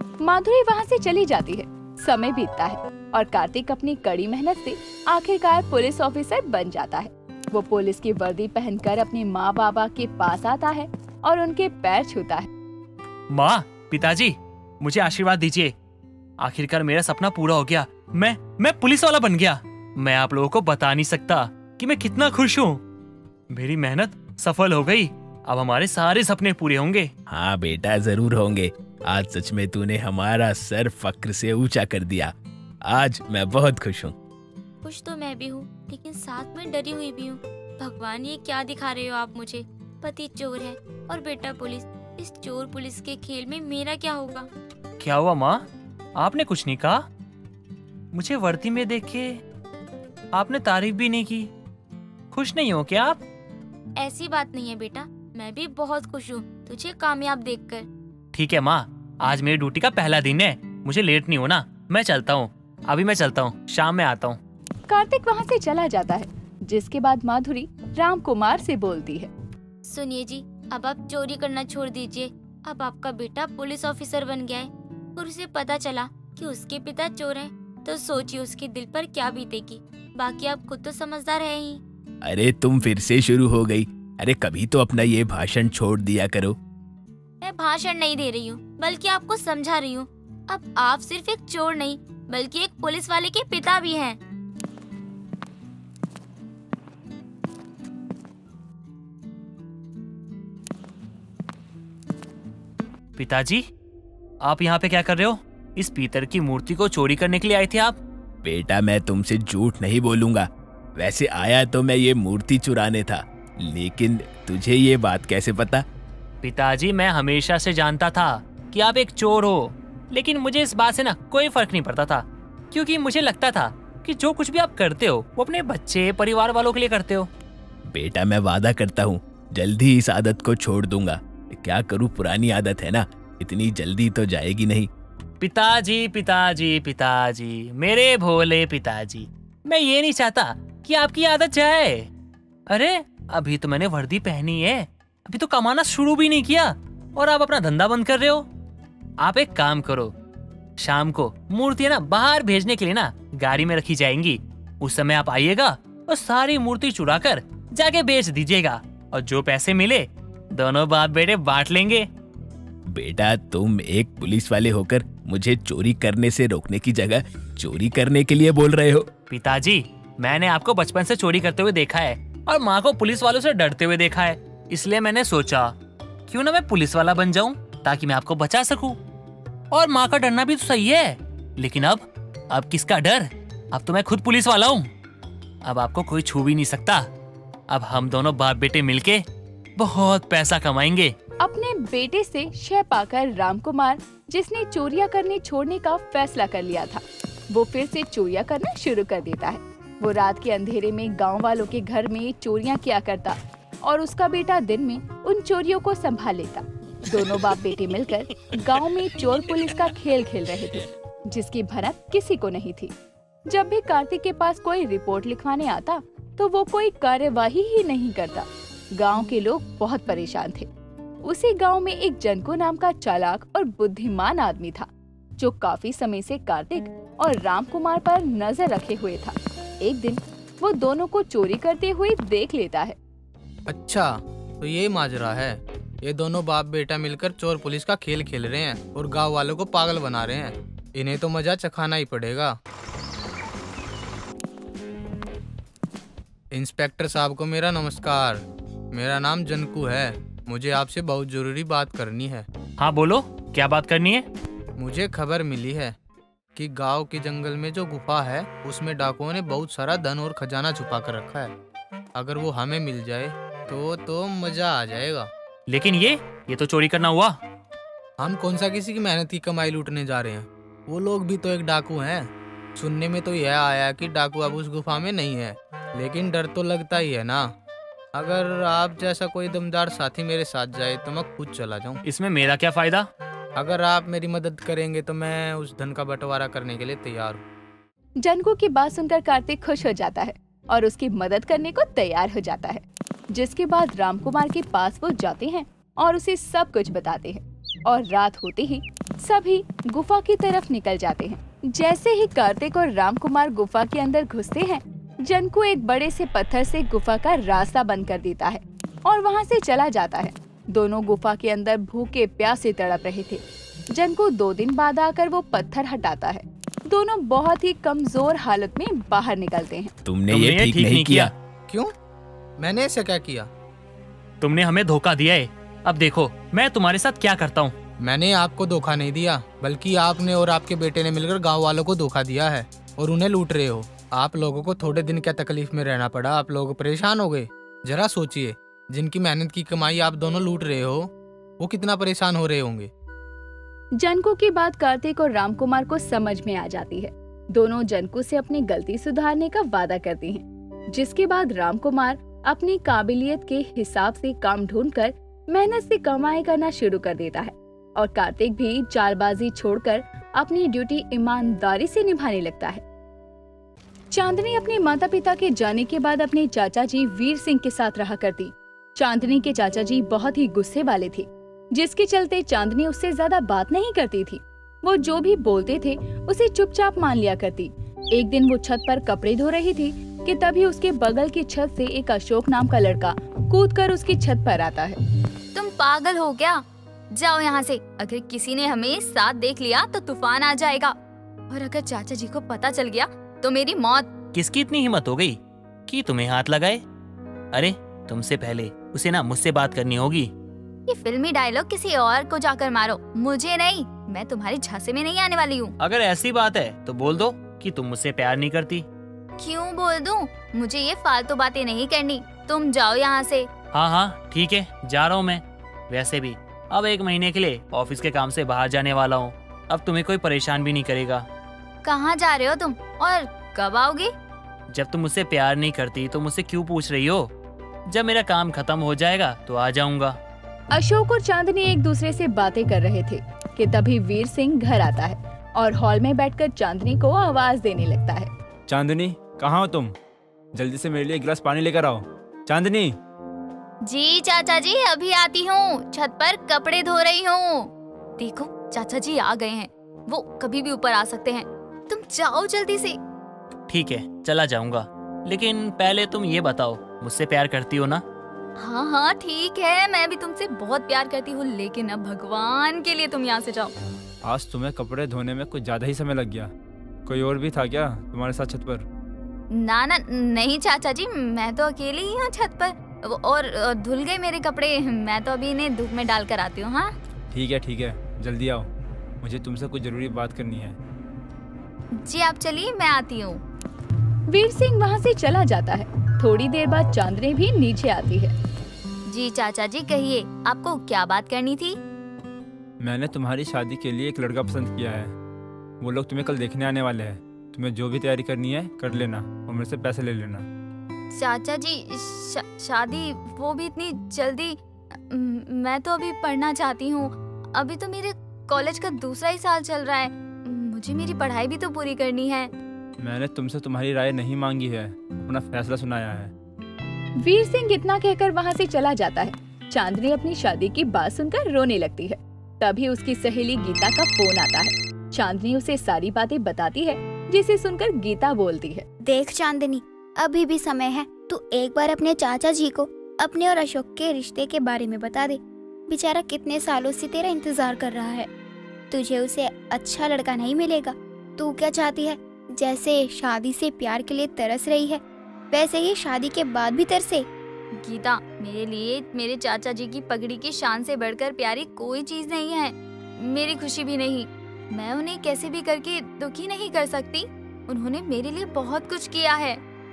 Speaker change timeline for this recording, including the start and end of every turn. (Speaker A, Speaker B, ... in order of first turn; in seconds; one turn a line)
Speaker A: 0.2-12.5
Speaker B: 13.3-15.7
Speaker B: 16.4-22.8
Speaker B: 23.5-27.1
Speaker C: 27.3-34.1
Speaker D: 34.8-44.5
Speaker B: 45.0-45.6
Speaker B: 46.2-47.0
Speaker B: 48.1-49.4
Speaker B: 50.3-51.5
Speaker B: 52.3-53.2
Speaker D: 54.0-57.9
Speaker B: 58.3-64.4
Speaker A: 64.9-69.3
Speaker D: 69.8-81.8
Speaker C: 82.2-86.6
Speaker D: 87.4-94.2
Speaker B: 103.2-103.6
Speaker B: 104.4-108.0
Speaker C: 108.4-115.8
Speaker B: 116.4-127.3
Speaker C: 127.9-134.9
Speaker B: 135.4-142.1
Speaker B: 142.7-148.4
Speaker B: 149.2-150.1
Speaker B: 150.8-162.1
Speaker C: 162.9-169.1
Speaker B: 169.3-175.7
Speaker B: 176.3-179.0
Speaker B: 179.7-184.9
Speaker B: 185.6-187.0
Speaker B: 187.7-189.2
Speaker B: 189.8-191.1
Speaker A: 191.4-212.9
Speaker A: 213.5-220.7
Speaker A: 221.2-233.0
Speaker E: 233.7-242.6
Speaker E: 246.5-252.4
Speaker B: 252.8-254.2
Speaker E: 254.8-255.9
Speaker E: 256.5-261.5
Speaker E: 262.1-265.3
Speaker B: 265.7-267.3
Speaker E: 268.2-277.5
Speaker E: 278.1-282.0
Speaker B: 282.0-283.1
Speaker E: 283.6-287.4
Speaker A: 288.2-319.9
Speaker C: 320.0-321.3
Speaker B: 320.3-321.3
Speaker E: 322.6-323.5
Speaker B: 324.4-327.7
Speaker E: 328.0-342.9
Speaker A: 343.9-362.8
Speaker A: 364.1-385.0
Speaker F: 385.5-386.6
Speaker F: 387.1-390.9
Speaker F: 391.5-394.1
Speaker B: 394.3-396.8
Speaker B: 397.5-400.3
Speaker F: 400.9-405.7
Speaker B: 405.8-408.8
Speaker F: 409.4-413.5
Speaker B: 413.7-421.2
Speaker F: 421.8-424.1
Speaker B: 424.7-427.3
Speaker B: 427.9-430.2
Speaker A: 430.7-438.3
Speaker G: 438.7-439.9
Speaker G: 440.5-442.9
Speaker F: 443.8-453.0
Speaker B: 453.7-458.0
Speaker F: 458.6-463.7
Speaker G: 464.2-466.5
Speaker G: 467.1-468.9
Speaker F: 469.5-476.9
Speaker G: 477.3-478.7
Speaker G: 479.2-480.8
Speaker F: 482.0-483.4
Speaker A: 484.3-488.3
Speaker F: 489.1-491.8
Speaker G: 492.8-495.1
Speaker G: 495.8-500.5
Speaker F: 501.1-512.5
Speaker G: 513.0-516.3
Speaker A: 517.2-528.9
Speaker H: 529.0-538.3
Speaker H: 538.9-547.3
Speaker F: 547.8-559.6